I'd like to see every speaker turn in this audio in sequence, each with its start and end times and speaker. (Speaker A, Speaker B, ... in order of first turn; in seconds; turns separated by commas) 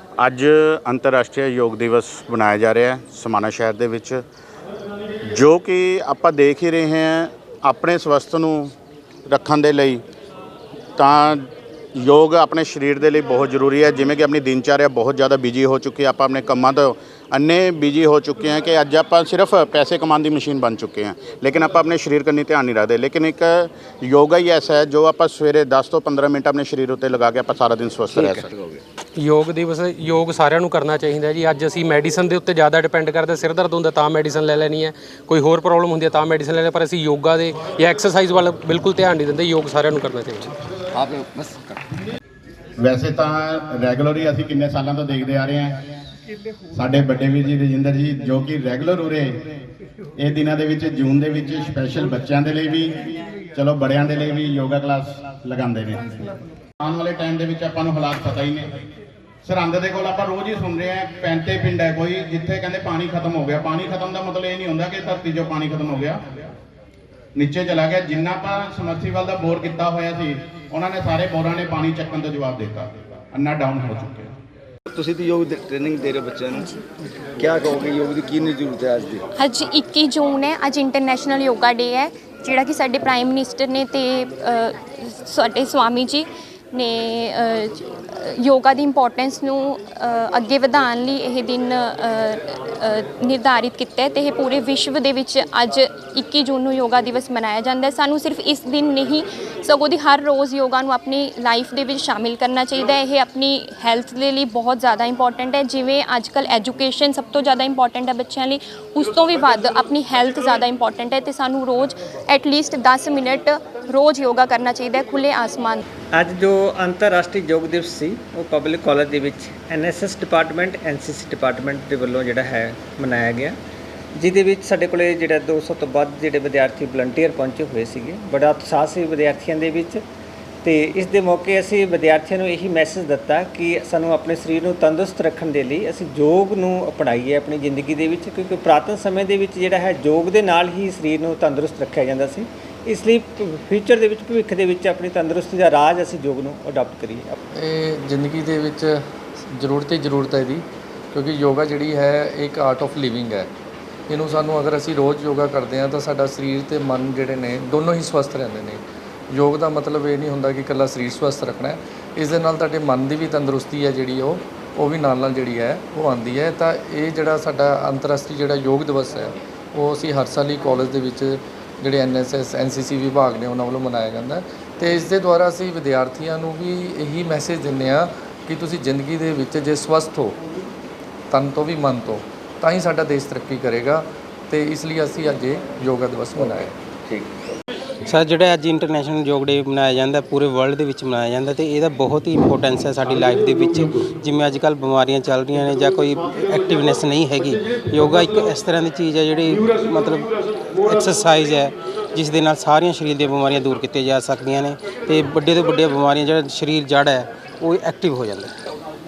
Speaker A: 0.2-4.2, Speaker A: 5.3-8.7, Speaker A: 9.3-10.0, Speaker A: 11.0-28.5, Speaker B: 29.2-40.5, Speaker C: 40.9-41.8, Speaker A: 42.8-45.7, Speaker A: 46.7-49.4, Speaker A: 50.2-56.1, Speaker A: 56.8-58.7, Speaker A: 59.4-66.2, Speaker A: 67.3-74.3, Speaker C: 74.9-76.8, Speaker C: 77.4-79.2, Speaker D: 79.3-115.8, Speaker E: 116.2-123.5, Speaker E: 124.2-130.0, Speaker E: 130.6-147.3, Speaker F: 147.6-149.0, Speaker F: 149.6-153.5, Speaker F: 154.1-180.3, Speaker F: 181.3-186.7, Speaker G: 188.1-200.3, Speaker G: 200.8-208.5